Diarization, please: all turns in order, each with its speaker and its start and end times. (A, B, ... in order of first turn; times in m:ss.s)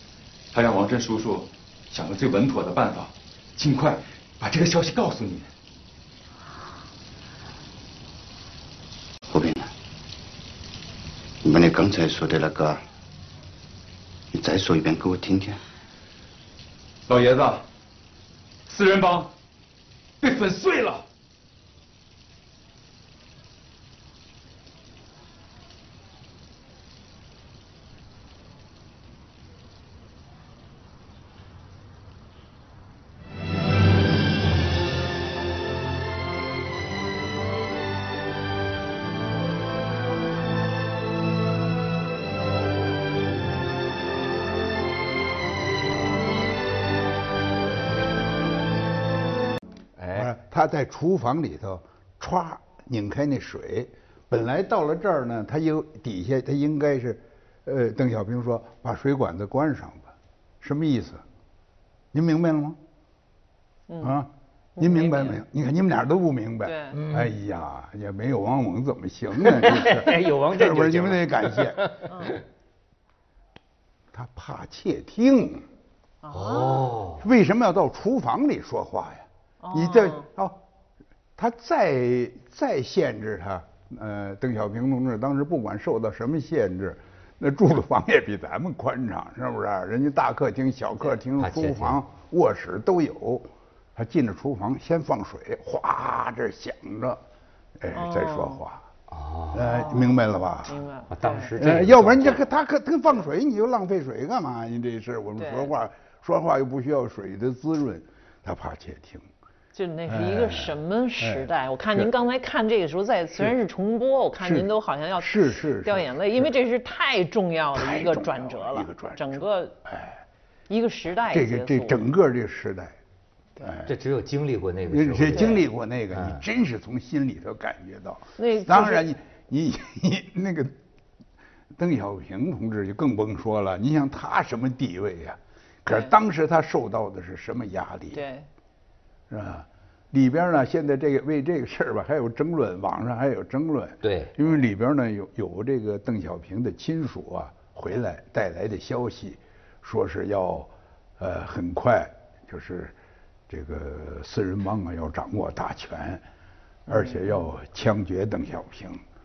0:00.5-0:05.5 A
0:09.3-0:09.7 B
0:11.4-0:12.8 B
0:14.3-0:15.6 B
0:17.1-0:17.6 A
0:18.6-0:19.3 A
0:20.2-0:21.0 A
0:50.0-0:50.3 C
0:50.1-1:01.2 D
1:02.1-1:02.8 D
1:03.9-1:04.2 E
1:04.0-1:11.9 D
1:04.8-1:05.4 E
1:06.6-1:07.0 E
1:06.9-1:07.4 C
1:09.4-1:12.3 C
1:12.1-1:12.4 E
1:14.1-1:15.6 D
1:16.2-1:16.9 E
1:16.3-1:17.2 C
1:17.2-1:20.6 D
1:19.6-1:20.3 E
1:21.4-1:37.2 D
1:31.4-1:32.0 C
1:37.8-1:38.8 D
1:37.9-1:38.6 E
1:39.1-1:39.8 C
1:39.5-1:40.8 D
1:39.6-1:41.5 E
1:41.1-1:42.4 C
1:41.6-1:49.3 D
1:45.4-1:45.7 E
1:49.7-1:59.7 E
1:50.1-1:52.1 D
1:54.4-1:56.5 D
1:57.7-2:00.2 D
2:00.7-2:02.1 E
2:01.3-2:03.0 D
2:03.6-2:03.9 D
2:03.9-2:06.4 C
2:04.9-2:10.8 D
2:08.4-2:09.1 E
2:11.8-2:18.2 D
2:18.1-2:18.4 E
2:19.3-2:32.9 D
2:24.0-2:24.3 C
2:33.5-2:36.2 D
2:36.9-2:39.0 D
2:36.9-2:37.4 E